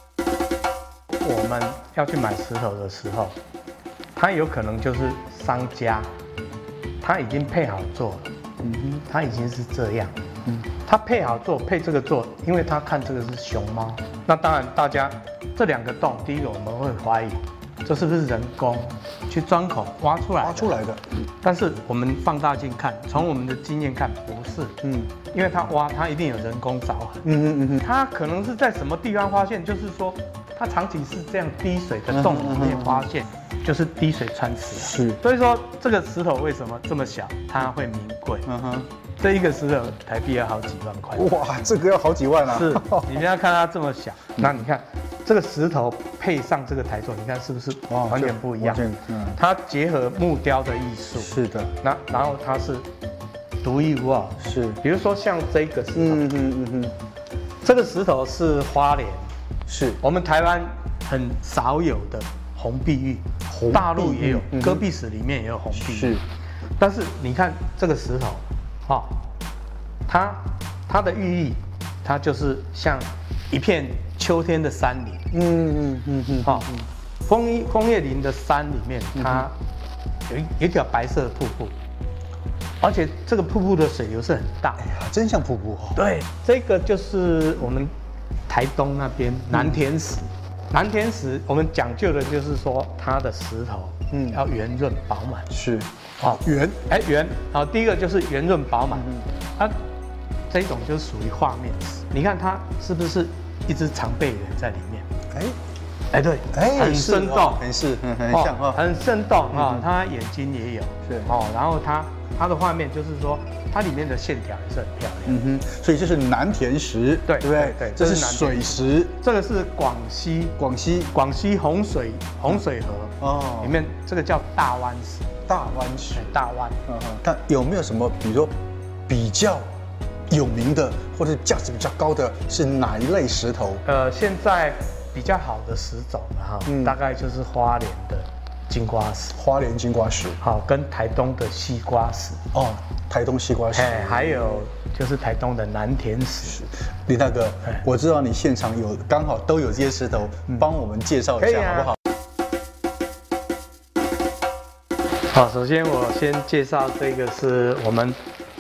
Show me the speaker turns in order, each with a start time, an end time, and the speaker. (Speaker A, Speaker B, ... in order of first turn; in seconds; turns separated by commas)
Speaker A: 1.2-3.4, Speaker A: 4.2-6.1, Speaker A: 7.0-8.3, Speaker B: 8.6-9.0, Speaker A: 9.1-10.2, Speaker A: 10.7-20.8, Speaker B: 20.4-21.1, Speaker A: 21.4-24.8, Speaker B: 24.8-25.1, Speaker A: 25.3-27.3, Speaker B: 27.2-27.8, Speaker A: 27.8-38.5, Speaker B: 32.1-33.1, Speaker B: 34.8-35.2, Speaker B: 38.5-38.9, Speaker A: 39.2-41.3, Speaker B: 41.1-43.2, Speaker A: 42.5-52.9, Speaker B: 47.9-49.4, Speaker B: 51.2-51.8, Speaker A: 53.6-56.3, Speaker B: 54.4-54.8, Speaker B: 56.0-57.0, Speaker A: 57.6-59.3, Speaker B: 59.7-60.0, Speaker A: 60.0-66.2, Speaker B: 63.5-64.8, Speaker B: 65.7-66.2, Speaker A: 66.8-69.2, Speaker A: 70.1-75.3, Speaker B: 75.3-76.9, Speaker A: 76.4-76.7, Speaker A: 77.2-79.5, Speaker B: 79.2-79.5, Speaker A: 80.3-81.8, Speaker A: 82.8-84.8, Speaker B: 84.8-86.0, Speaker A: 86.0-87.9, Speaker A: 88.5-95.5, Speaker B: 89.5-89.8, Speaker B: 95.5-96.9, Speaker A: 96.2-99.8, Speaker B: 98.9-99.3, Speaker A: 100.5-105.1, Speaker B: 105.3-105.6, Speaker A: 106.1-107.7, Speaker B: 106.5-108.8, Speaker A: 108.3-115.4, Speaker B: 109.5-109.9, Speaker B: 111.1-111.3, Speaker B: 115.3-119.1, Speaker A: 117.3-120.6, Speaker B: 120.6-121.1, Speaker A: 121.1-125.3, Speaker B: 123.2-123.8, Speaker B: 125.5-126.3, Speaker A: 126.2-126.8, Speaker B: 126.9-128.5, Speaker B: 129.1-129.7, Speaker B: 130.3-133.8, Speaker A: 133.8-139.4, Speaker B: 136.7-137.0, Speaker B: 139.4-140.4, Speaker A: 140.4-142.4, Speaker B: 142.5-144.6, Speaker A: 143.7-146.6, Speaker B: 146.6-152.0, Speaker A: 151.4-151.9, Speaker A: 155.3-158.2